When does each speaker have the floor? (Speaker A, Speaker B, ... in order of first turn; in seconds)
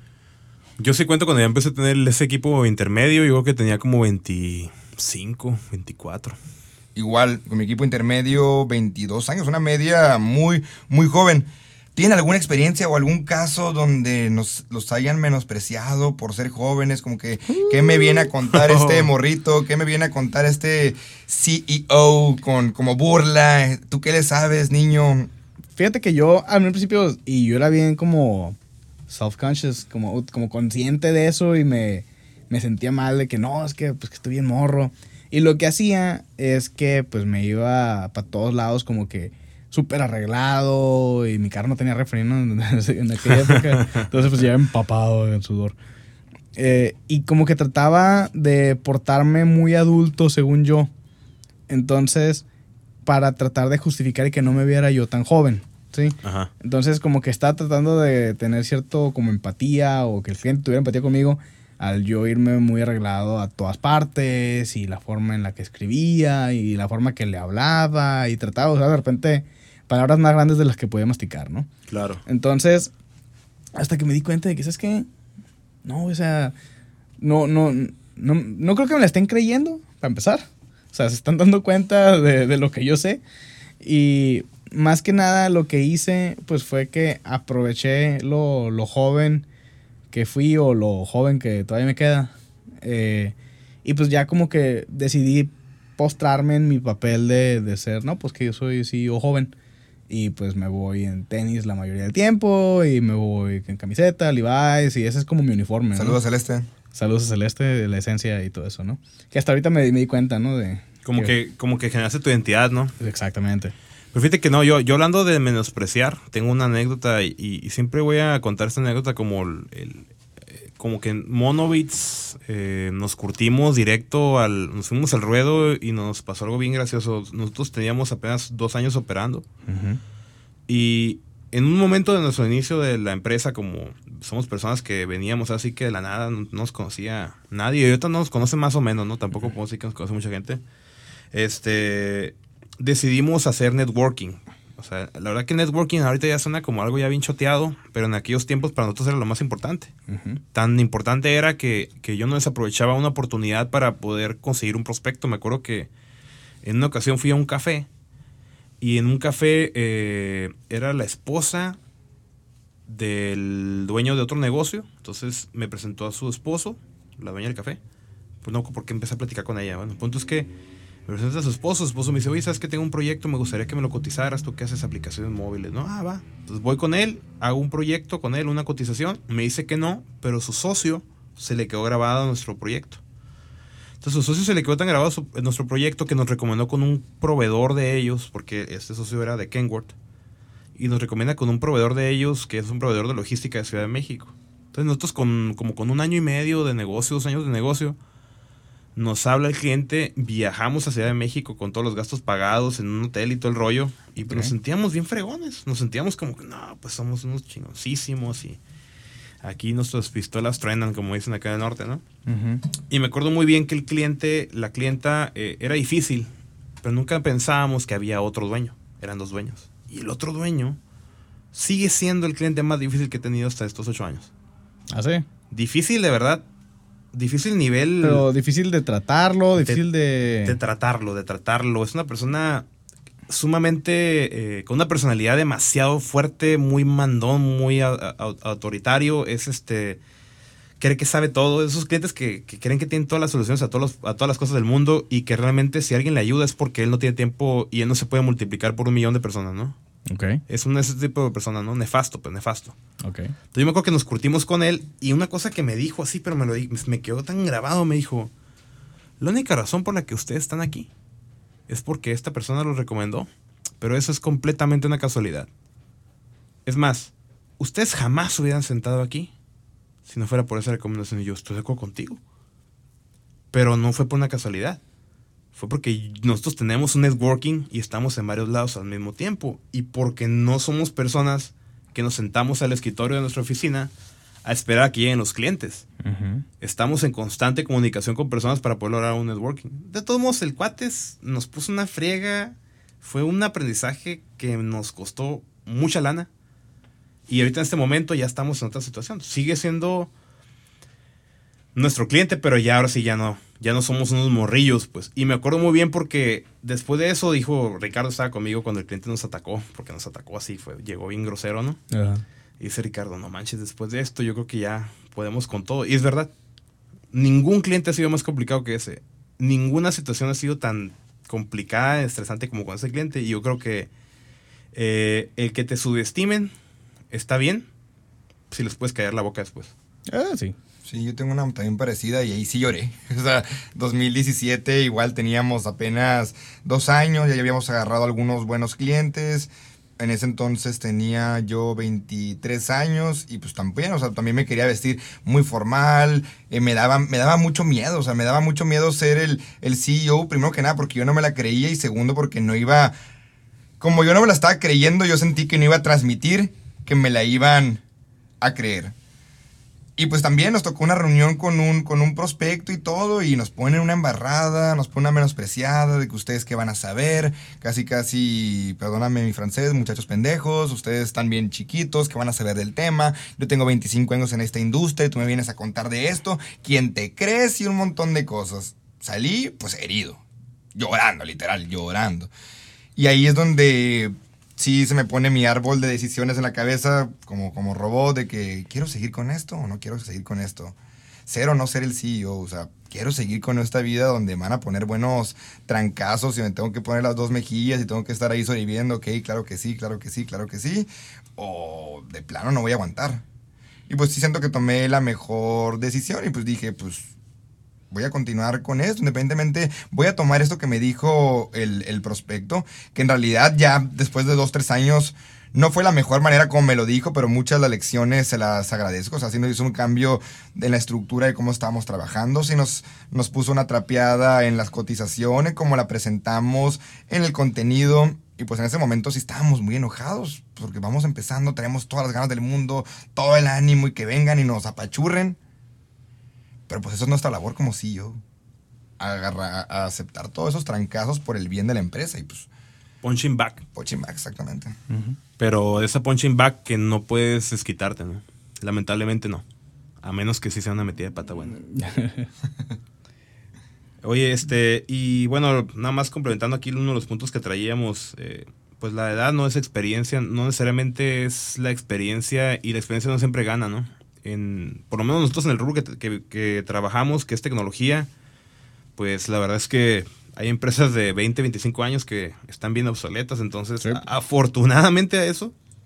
Speaker A: 0.8-6.4, 18.5-19.1, 43.5-44.0, 56.2-56.5, 71.9-72.2, 111.0-112.9, 114.1-129.4, 130.7-140.6, 141.3-149.9, 150.5-155.9, 156.6-157.9, 158.8-161.8, 162.9-167.8, 168.4-170.5, 171.1-183.0, 184.0-189.9, 190.8-198.0, 198.9-208.6, 209.4-212.0, 212.9-216.3, 216.8-220.8, 221.5-224.3, 225.5-226.4, 227.1-228.2, 230.4-232.7, 233.3-240.0, 240.8-249.8, 250.5-252.8, 253.5-258.3, 259.2-260.9, 261.7-263.3, 263.8-265.5, 266.6-269.3, 270.1-272.2, 273.5-274.8, 275.5-283.9, 284.4-285.9, 286.6-296.3, 297.3-300.1, 301.7-311.8, 312.6-316.3, 317.1-323.9, 324.7-326.5, 327.1-327.6, 328.5-329.7, 443.0-443.6, 445.4-449.4, 450.0-451.6, 454.0-468.1, 469.0-475.5
Speaker B: 6.9-25.3, 105.9-106.7, 330.8-352.9, 353.8-357.8, 358.4-358.9, 360.0-380.2, 380.7-382.3, 382.9-390.8, 391.3-403.2, 403.9-407.1, 407.9-435.4, 436.7-438.2, 439.0-442.5, 443.7-444.7
Speaker C: 17.5-18.3, 25.8-28.6, 29.1-45.7, 46.5-50.9, 51.7-52.4, 53.0-71.7, 72.2-72.9, 73.8-75.1, 75.8-76.5, 77.2-83.2, 83.8-89.5, 90.1-99.5, 100.1-106.2, 106.9-111.3, 113.0-113.7, 129.7-130.0, 150.1-150.4, 204.3-204.5, 212.3-212.6, 224.9-225.2, 228.0-230.6, 250.1-250.4, 253.0-253.3, 286.0-286.4, 311.9-312.2, 330.1-330.5, 444.9-445.2, 451.6-452.3